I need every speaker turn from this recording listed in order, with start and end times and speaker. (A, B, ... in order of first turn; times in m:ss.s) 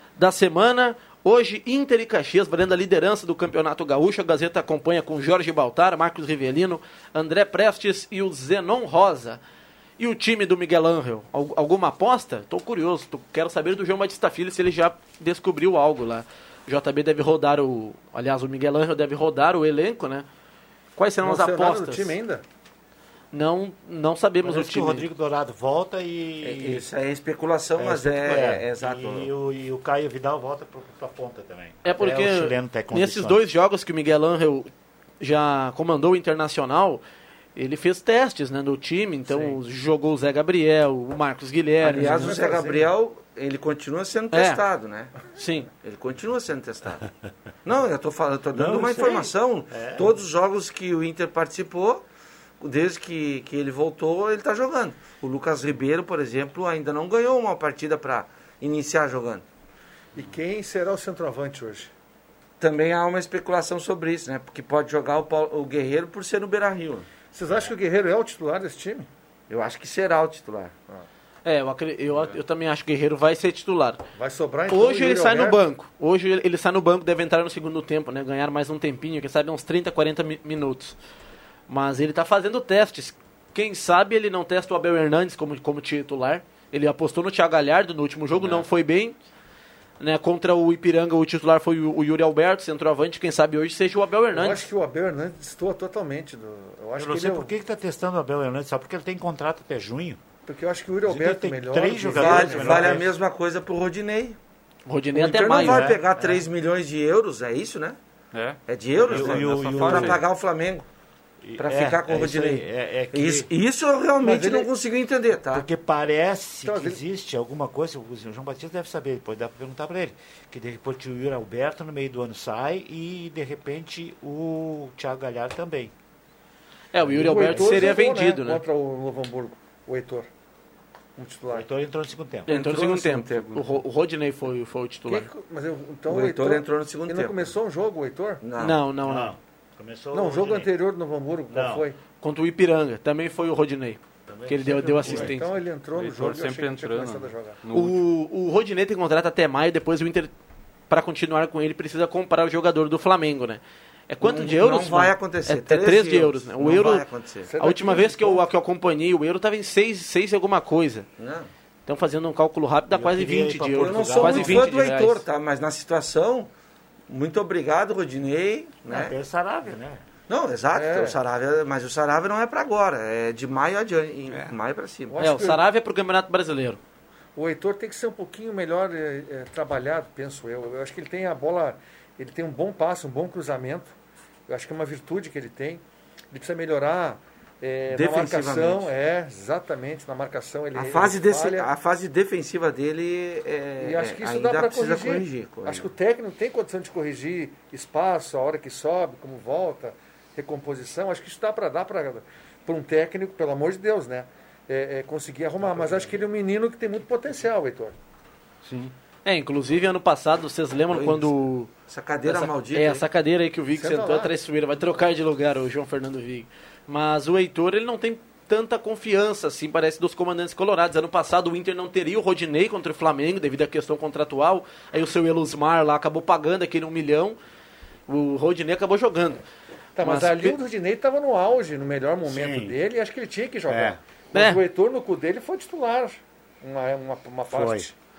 0:00.2-0:09.4 A
0:10.0-0:20.2 A
0:21.0-0:22.1 A
0:21.2-0:22.4 B
0:23.3-0:25.0 A
0:24.4-0:26.8 C
0:26.4-0:29.3 D
0:27.8-0:33.4 C
0:31.8-0:34.7 A
0:35.2-0:37.0 A
0:37.6-0:42.4 A
0:41.8-0:45.1 D
0:42.0-0:42.9 B
0:44.3-0:44.6 A
0:45.3-0:45.7 A
0:45.8-0:47.0 D
0:47.6-0:52.0 D
0:48.5-0:50.2 C
0:52.6-0:59.4 D
1:00.1-1:01.9 B
1:02.6-1:07.1 D
1:07.3-1:09.1 B
1:09.5-1:10.7 D
1:11.4-1:14.0 A
1:14.2-1:15.6 B
1:14.7-1:21.0 A
1:21.7-1:29.1 A
1:30.0-1:34.7 A
1:34.3-1:37.5 B
1:37.0-1:40.2 C
1:40.5-1:43.0 B
1:41.1-1:43.1 C
1:42.1-1:44.4 D
1:44.9-1:45.9 A
1:45.1-1:48.0 D
1:45.6-1:46.4 C
1:48.3-1:50.2 E
1:48.7-1:50.8 D
1:49.0-1:50.2 C
1:51.4-1:53.5 C
1:51.6-1:55.6 D
1:54.2-1:54.7 B
1:55.5-2:05.9 C
1:56.6-1:57.0 B
2:06.9-2:08.6 A
2:07.0-2:08.0 C
2:07.1-2:10.3 B
2:11.2-2:11.6 B
2:11.5-2:12.5 C
2:12.5-2:13.8 D
2:12.5-2:15.3 A
2:15.1-2:18.4 B
2:16.1-2:17.5 D
2:18.4-2:18.8 D
2:18.6-2:19.3 A
2:19.0-2:20.7 C
2:20.1-2:22.0 B
2:21.5-2:21.8 C
2:22.2-2:25.5 A
2:24.3-2:25.3 C
2:24.6-2:27.6 B
2:25.9-2:28.0 E
2:27.7-2:30.3 A
2:30.9-2:37.0 A
2:34.2-2:37.5 D
2:37.5-2:38.4 B
2:37.6-2:41.1 A
2:41.2-2:41.5 D
2:41.9-2:45.2 A
2:42.9-2:44.7 C
2:43.8-2:46.5 D
2:47.1-2:49.1 D
2:48.9-2:50.0 C
2:50.3-2:55.2 D
2:50.7-2:51.2 B
2:55.1-2:55.6 B
2:55.2-2:56.8 A
2:57.4-3:03.9 B
3:04.5-3:11.7 B
3:07.9-3:08.9 D
3:10.7-3:15.9 D
3:13.8-3:27.9 B
3:28.6-3:28.9 E
3:29.2-3:31.7 A
3:30.9-3:31.3 D
3:31.9-3:33.0 D
3:32.2-3:47.4 A
3:33.8-3:34.3 B
3:48.1-3:49.4 A
3:50.0-3:57.9 B
3:50.0-3:50.6 A
3:52.2-3:52.7 C
3:53.7-3:54.0 C
3:54.3-3:54.6 A
3:57.5-3:57.9 C